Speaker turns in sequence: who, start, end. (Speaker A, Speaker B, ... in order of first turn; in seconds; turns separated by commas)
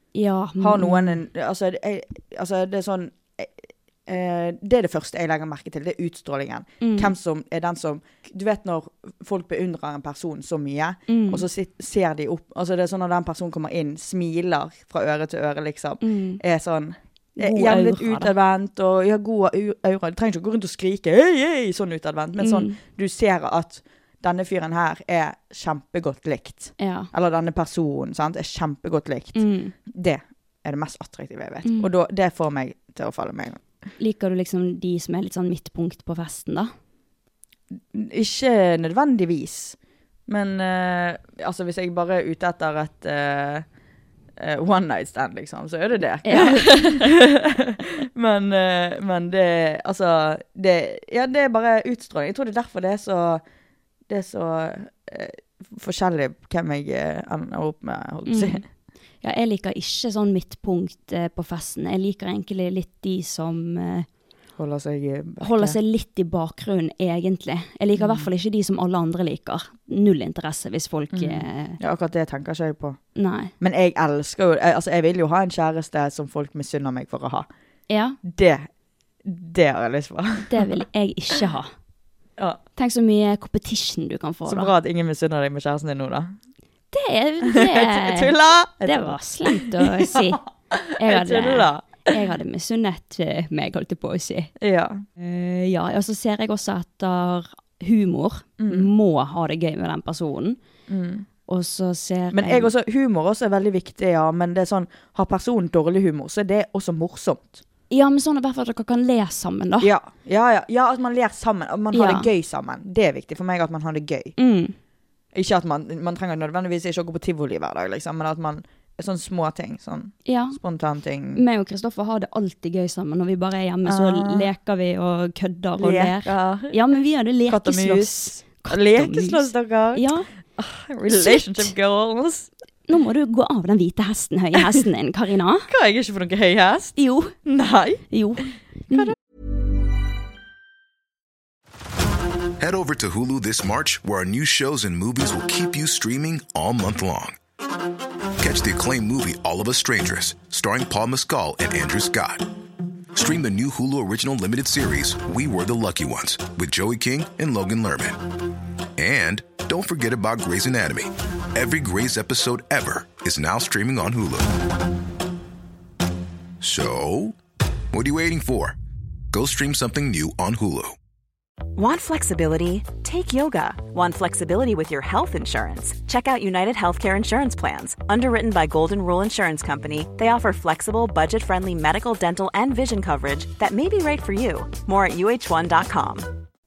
Speaker A: 0.1-1.2, Speaker B: 0.6-33.6, Speaker A: 6.8-7.1, Speaker A: 11.1-11.4, Speaker A: 16.0-16.4, Speaker A: 17.4-18.3, Speaker A: 22.4-22.8, Speaker A: 26.8-27.1, Speaker A: 29.3-29.7, Speaker A: 31.6-31.9, Speaker A: 34.0-36.7, Speaker B: 37.9-43.6, Speaker B: 44.4-53.4, Speaker A: 46.2-47.1, Speaker B: 54.1-58.6, Speaker A: 58.3-58.6, Speaker A: 59.2-64.1, Speaker B: 64.6-65.8, Speaker A: 65.4-71.8, Speaker B: 68.0-68.3, Speaker B: 71.1-73.0, Speaker A: 73.1-73.5, Speaker B: 73.6-77.5, Speaker A: 77.9-78.2, Speaker B: 78.2-78.7, Speaker B: 79.2-80.7, Speaker A: 80.5-81.7, Speaker A: 82.8-84.7, Speaker B: 84.5-86.3, Speaker A: 86.9-88.3, Speaker B: 87.5-92.1, Speaker A: 88.8-90.4, Speaker A: 91.0-94.5, Speaker B: 94.6-95.0, Speaker A: 95.2-100.6, Speaker B: 98.6-98.9, Speaker B: 100.9-101.3, Speaker A: 101.5-102.7, Speaker B: 102.3-107.6, Speaker A: 107.9-109.9, Speaker B: 109.8-114.3, Speaker A: 111.9-112.3, Speaker A: 114.4-114.7, Speaker B: 115.3-121.4, Speaker A: 120.2-120.6, Speaker A: 121.3-130.3, Speaker B: 123.8-124.5, Speaker B: 125.8-126.8, Speaker B: 127.5-130.0, Speaker B: 130.6-132.5, Speaker A: 131.1-131.7, Speaker A: 132.9-135.7, Speaker B: 135.7-139.1, Speaker A: 137.0-137.3, Speaker A: 138.1-139.1, Speaker C: 142.6-147.4, Speaker C: 148.4-152.4, Speaker C: 153.1-158.2, Speaker C: 159.0-164.5, Speaker C: 166.6-167.4, Speaker C: 167.9-168.8, Speaker C: 169.3-170.9, Speaker D: 171.8-186.3